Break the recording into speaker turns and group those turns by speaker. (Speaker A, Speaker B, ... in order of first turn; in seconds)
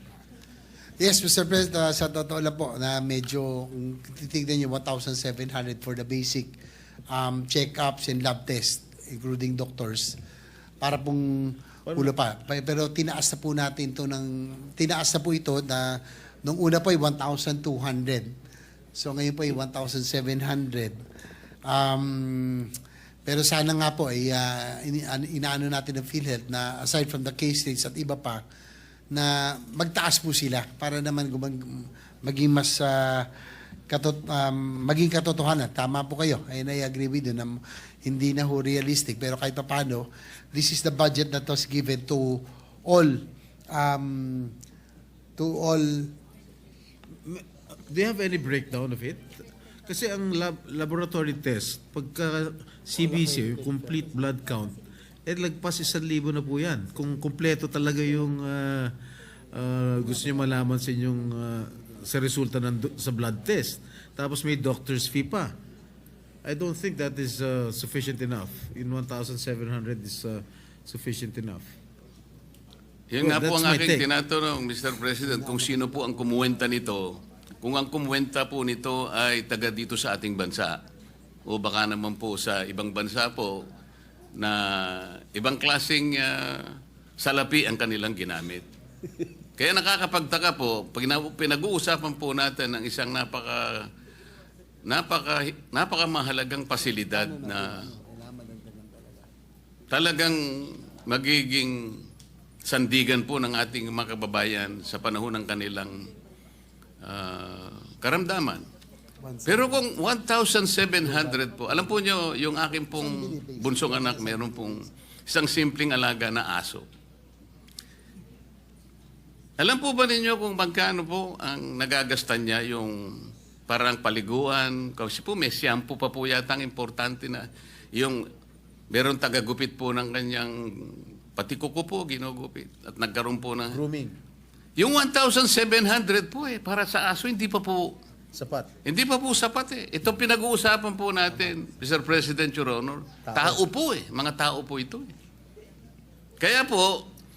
Speaker A: 1.0-6.5, 7.1-10.2, 10.8-18.3, 18.9-21.0, 21.6-22.7, 23.2-28.4, 29.1-33.3, 33.9-44.5, 45.4-46.1, 75.5-75.8, 97.1-99.3, 109.2-109.8, 111.0-111.3, 113.0-114.8
Speaker B: 11.8-12.1, 47.2-59.0, 59.5-65.5, 66.4-71.7, 73.2-74.0, 133.7-134.2, 138.3-138.7, 143.2-143.6
Speaker C: 73.1-80.8, 81.5-83.7, 84.3-88.7, 89.6-93.9, 94.8-97.8, 99.9-102.0, 102.6-106.1, 107.0-108.7, 109.5-116.9, 119.6-128.2, 128.9-133.8, 134.8-138.0, 138.8-145.1, 146.4-147.1